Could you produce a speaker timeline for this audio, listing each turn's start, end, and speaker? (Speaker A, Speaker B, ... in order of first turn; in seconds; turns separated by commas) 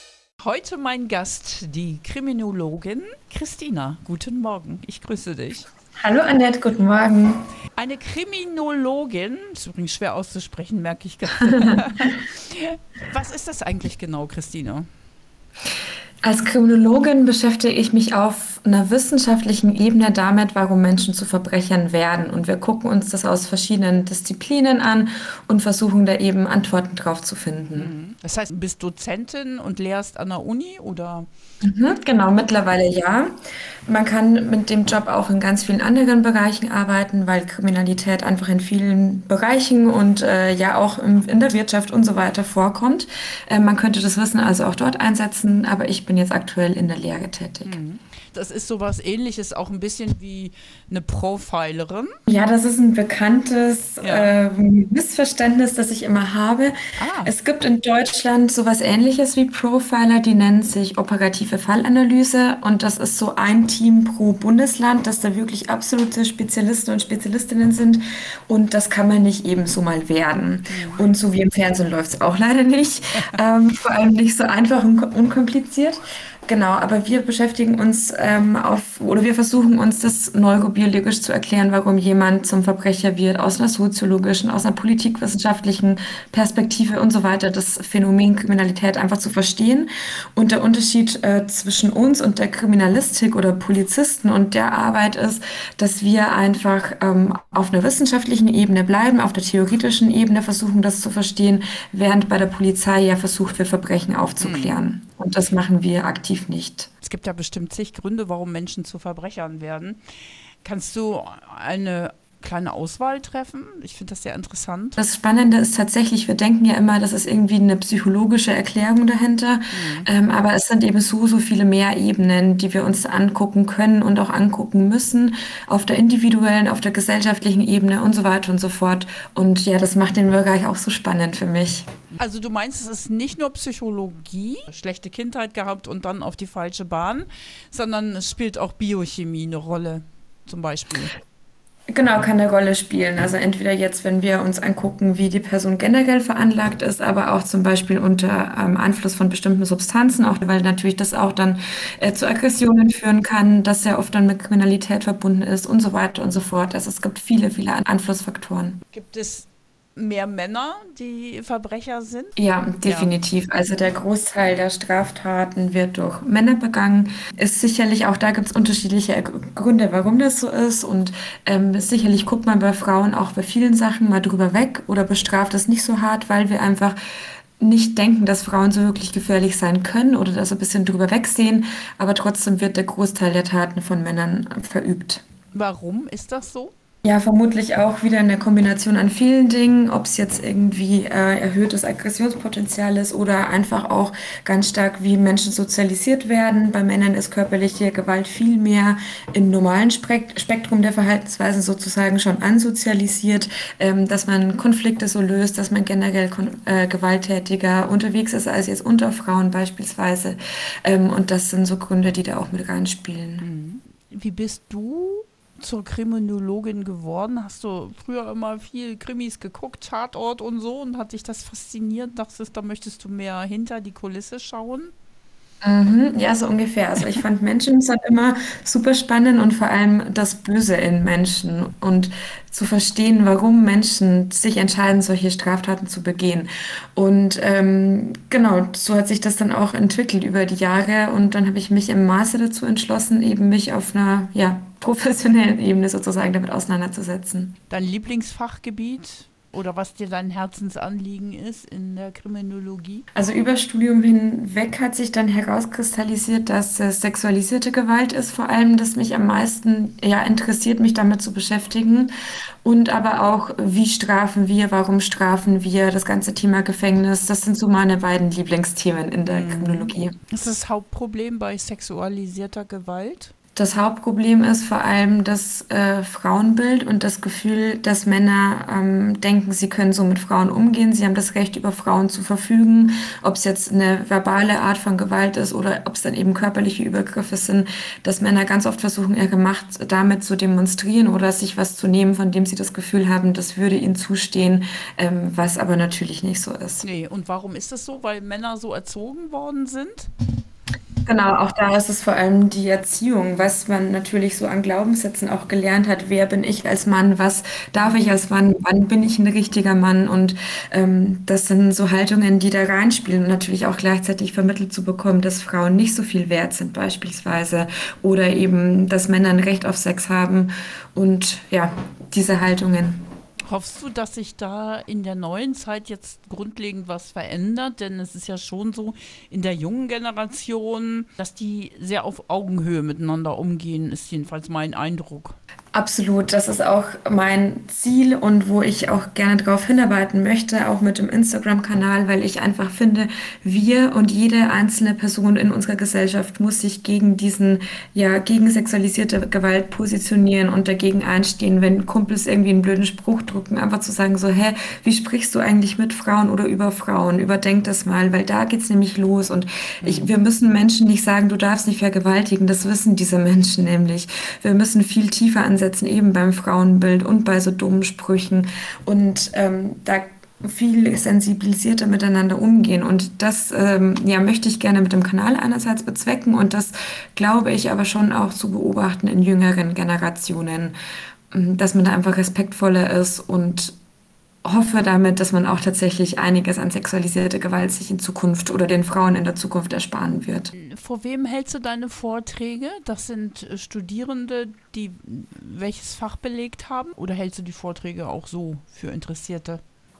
Speaker A: 0.4-5.7, Speaker B: 6.0-7.4, Speaker A: 7.8-14.8, Speaker B: 16.2-27.9, Speaker A: 27.7-31.3, Speaker B: 31.6-33.3, Speaker B: 33.9-47.8, Speaker A: 47.6-52.1, Speaker B: 52.3-106.9, Speaker A: 54.0-54.3, Speaker A: 57.0-57.3, Speaker A: 70.7-71.0, Speaker A: 104.4-104.8, Speaker A: 107.0-110.0, Speaker A: 110.6-115.0, Speaker B: 115.0-131.9, Speaker A: 119.7-120.1, Speaker A: 132.1-141.1, Speaker B: 141.9-158.8, Speaker A: 158.9-163.1, Speaker B: 162.4-177.0, Speaker B: 177.6-185.2, Speaker A: 185.5-186.7, Speaker B: 187.0-213.4, Speaker A: 213.4-224.9, Speaker B: 225.6-247.5, Speaker A: 247.7-253.0, Speaker B: 253.1-262.1, Speaker B: 262.6-270.1, Speaker A: 269.3-273.3, Speaker B: 273.5-296.8, Speaker A: 296.8-300.1, Speaker B: 301.1-323.0, Speaker A: 323.5-335.4, Speaker B: 335.7-380.7, Speaker A: 359.8-360.1, Speaker B: 381.3-383.7, Speaker B: 384.4-390.5, Speaker A: 390.5-399.6